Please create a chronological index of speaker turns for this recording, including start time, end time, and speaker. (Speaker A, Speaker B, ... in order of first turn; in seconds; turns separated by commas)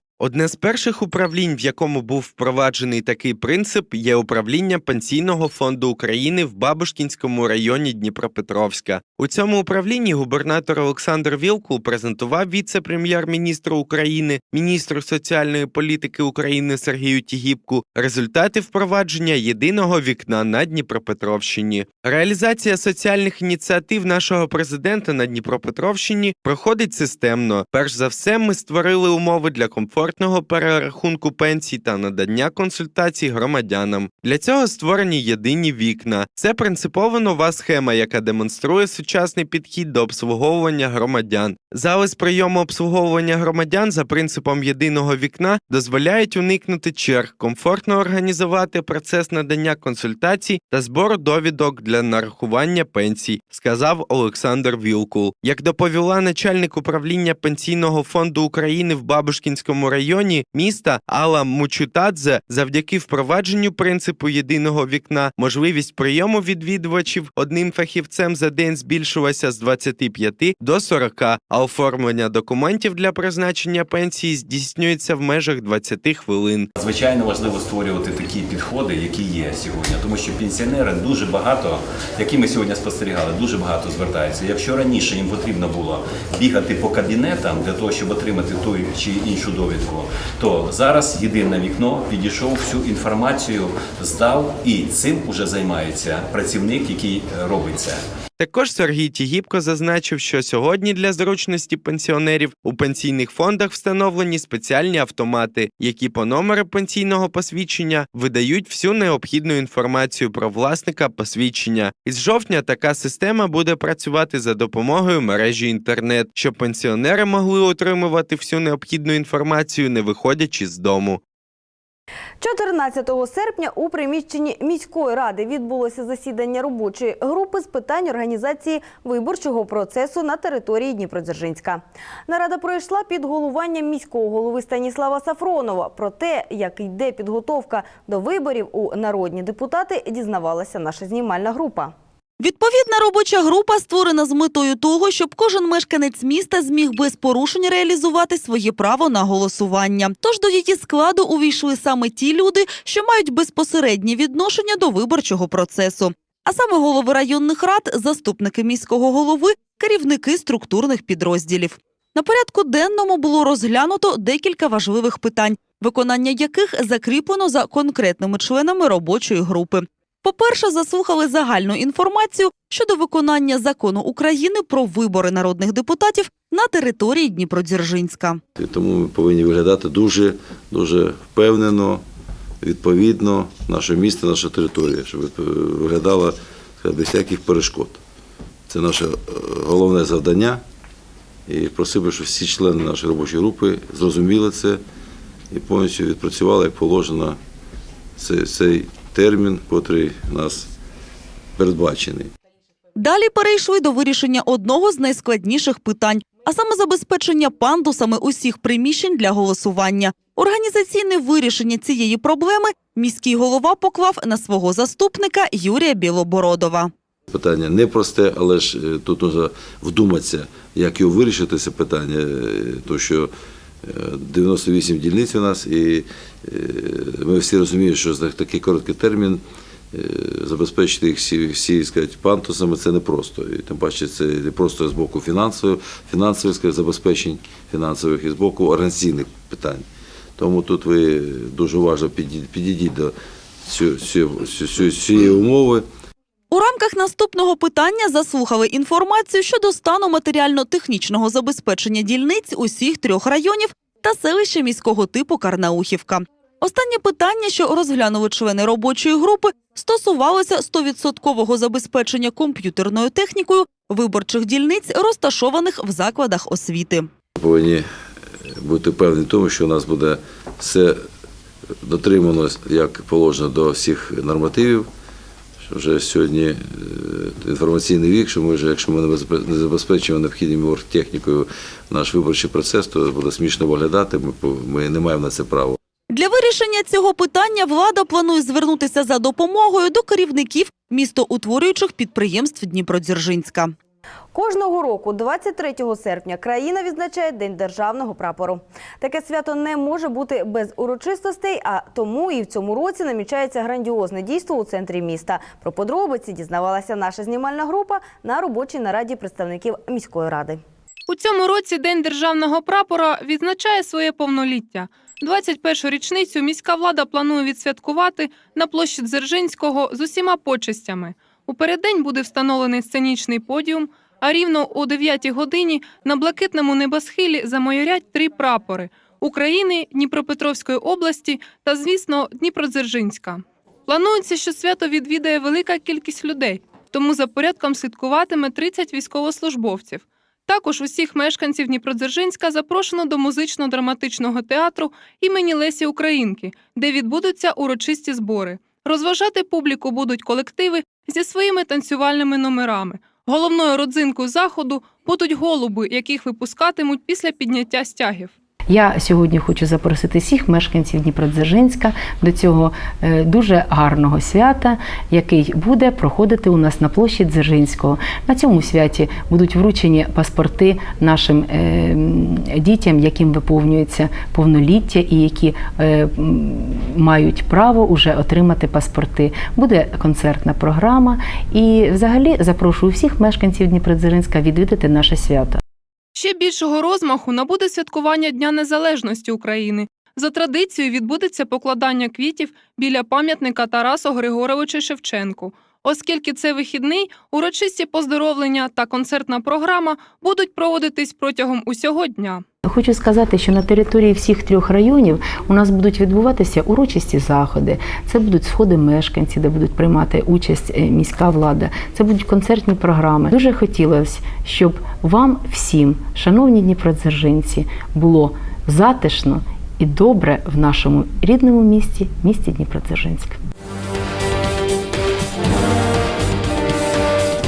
Speaker A: 0.2-76.7, Speaker B: 76.8-98.0, Speaker A: 98.4-121.2, Speaker C: 122.4-141.9, Speaker D: 142.4-178.4, Speaker E: 178.6-182.0, Speaker E: 182.6-188.0, Speaker E: 188.7-190.6, Speaker E: 191.5-194.8, Speaker E: 195.5-197.4, Speaker E: 198.2-200.7, Speaker E: 201.6-202.3, Speaker D: 203.0-216.9, Speaker E: 217.3-223.3, Speaker E: 223.8-229.4, Speaker E: 229.9-239.9, Speaker E: 240.4-243.1, Speaker E: 243.7-245.9, Speaker D: 246.5-267.1, Speaker E: 267.4-267.9, Speaker E: 268.4-271.0, Speaker E: 271.8-274.9, Speaker E: 275.7-285.8, Speaker D: 286.1-293.7, Speaker C: 294.3-310.6, Speaker F: 311.1-358.3, Speaker G: 358.7-385.6, Speaker F: 386.2-402.4, Speaker G: 402.6-423.4